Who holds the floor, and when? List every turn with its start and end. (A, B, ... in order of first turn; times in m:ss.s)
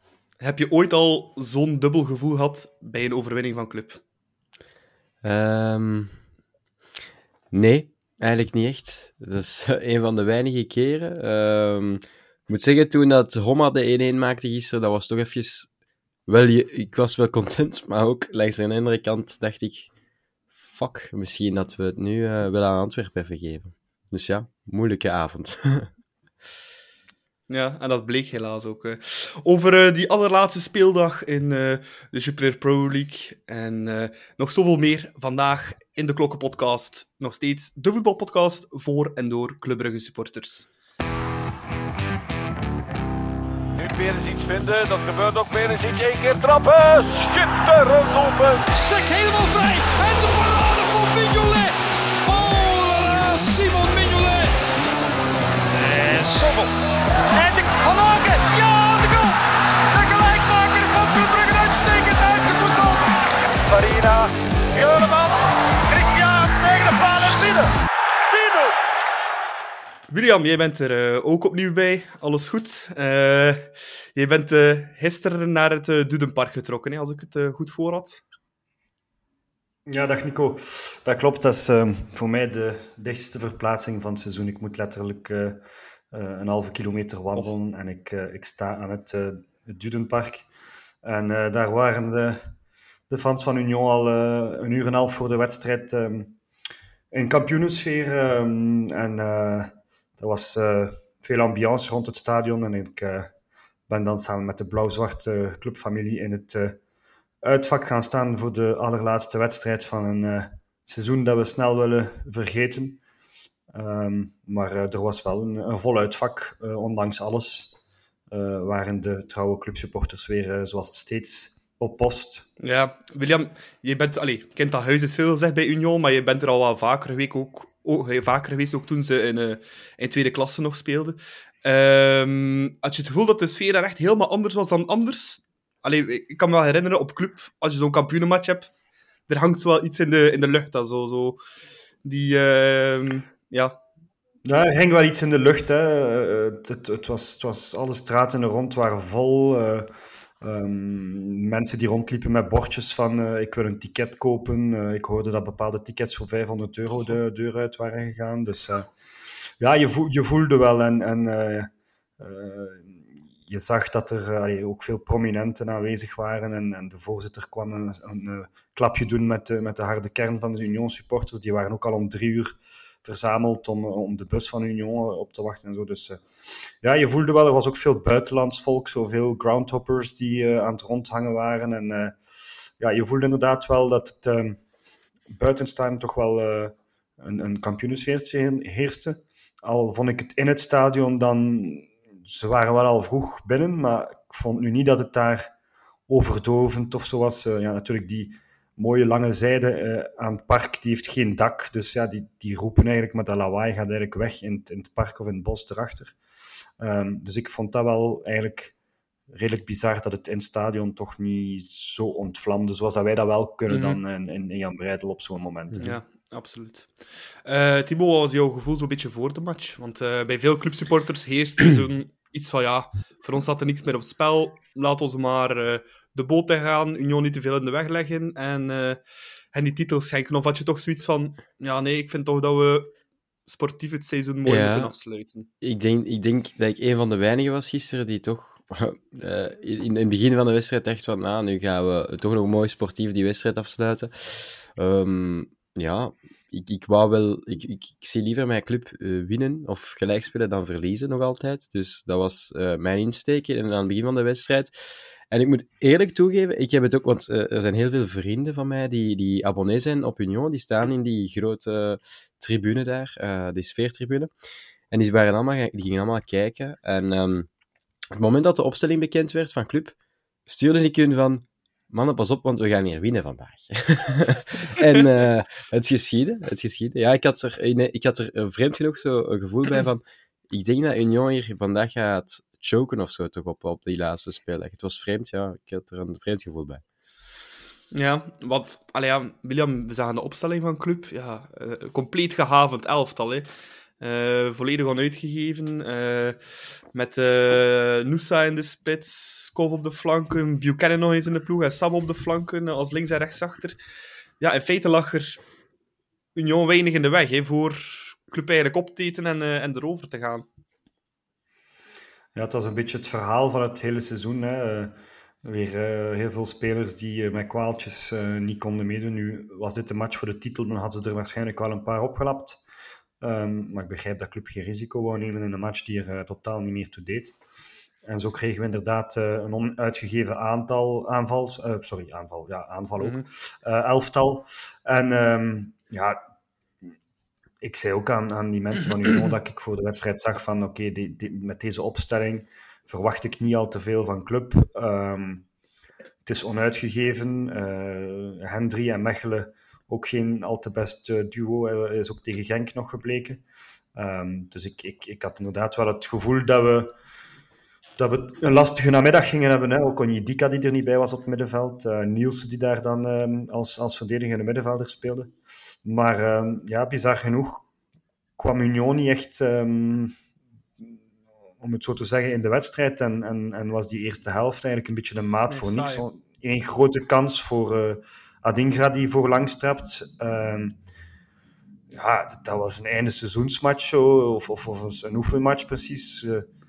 0:00.4-0:04.0 A
0:05.2-0:06.2 B
0:07.5-0:15.7 B
0:16.3-0:19.9 B
0:20.7-0:25.9 B
0:27.5-0:40.7 A
0:43.8-0:48.6 C
0:48.7-0:54.6 D
0:55.8-0:56.8 D
0:57.3-1:03.1 D
1:03.6-1:07.7 C
1:08.3-1:08.7 C
1:10.1-1:18.2 A
1:19.9-1:25.6 E
1:26.1-1:30.5 E
1:31.0-1:32.5 E
1:33.1-1:36.4 E
1:37.1-1:43.3 E
1:43.9-1:46.8 E
1:47.4-1:53.0 E
1:53.7-1:57.7 E
1:58.3-2:02.5 E
2:02.6-2:18.7 A
2:19.3-2:21.4 A
2:22.0-2:23.8 A
2:24.4-3:04.6 E
3:05.3-3:15.5 E
3:16.1-3:26.2 E
3:26.8-3:28.7 E
3:29.3-3:35.8 E
3:33.7-3:34.0 A
3:35.7-3:36.0 B
3:35.8-3:49.0 A
3:49.5-3:52.9 A
3:53.5-3:55.5 A
3:54.4-3:54.9 B
3:55.6-4:24.3 B
4:24.9-4:27.5 B
4:28.1-4:30.0 B
4:30.5-4:46.8 B
4:47.9-4:53.5 A
4:54.0-4:56.4 A
4:56.9-5:03.8 A
5:04.4-5:05.4 A
5:06.4-5:10.5 A
5:12.4-5:22.6 E
5:23.2-5:27.4 E
5:28.0-5:36.2 E
5:33.0-5:33.2 A
5:37.6-5:45.4 E
5:46.2-5:53.4 E
5:54.0-5:56.9 E
5:58.0-6:05.3 E
6:05.8-6:07.7 E
6:08.4-6:10.1 E
6:11.6-6:20.8 E
6:15.5-6:16.0 A
6:21.9-6:26.4 E